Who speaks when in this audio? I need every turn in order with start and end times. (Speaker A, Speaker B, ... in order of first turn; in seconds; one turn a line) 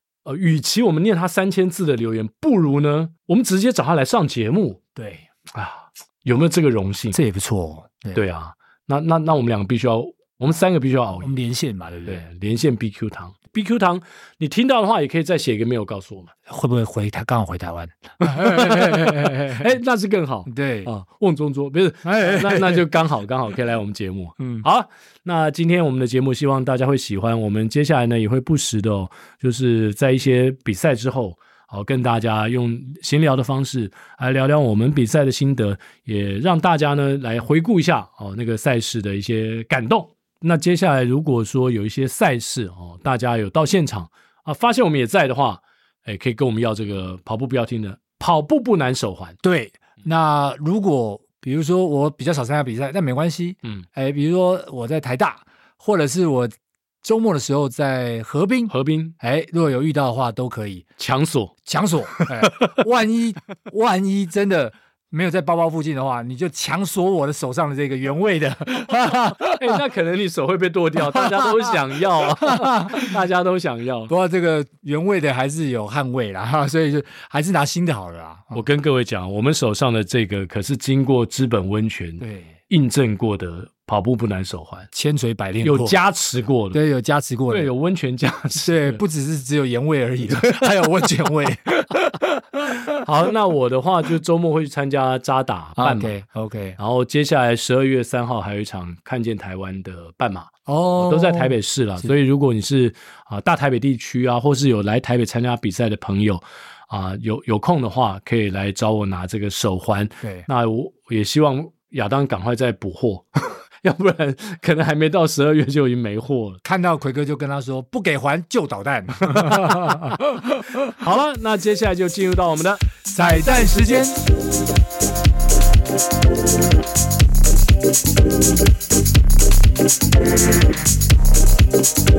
Speaker A: 0.2-4.8
Speaker B: 5.0-5.3
Speaker A: 5.5-7.2
Speaker B: 7.1-8.2
Speaker A: 8.1-11.3
Speaker B: 11.2-12.2
Speaker A: 12.1-16.3
Speaker B: 16.5-19.7
Speaker A: 18.2-49.4
Speaker B: 20.5-20.9
Speaker B: 22.0-22.9
Speaker B: 49.4-60.9
Speaker A: 58.7-59.1
Speaker A: 61.0-61.6
Speaker B: 61.7-69.8
Speaker A: 62.1-62.8
Speaker A: 69.4-74.1
Speaker B: 71.1-71.8
Speaker B: 72.4-73.1
Speaker B: 74.1-78.7
Speaker A: 78.5-84.9
Speaker B: 82.2-82.5
Speaker B: 84.9-86.0
Speaker A: 85.6-86.8
Speaker B: 86.7-87.7
Speaker A: 87.5-89.0
Speaker B: 88.6-93.0
Speaker A: 92.9-96.2
Speaker B: 95.8-96.8
Speaker A: 96.8-116.6
Speaker B: 100.7-102.1
Speaker B: 110.2-110.5
Speaker B: 116.6-120.8
Speaker A: 119.7-120.2
Speaker A: 120.8-122.9
Speaker B: 123.1-124.2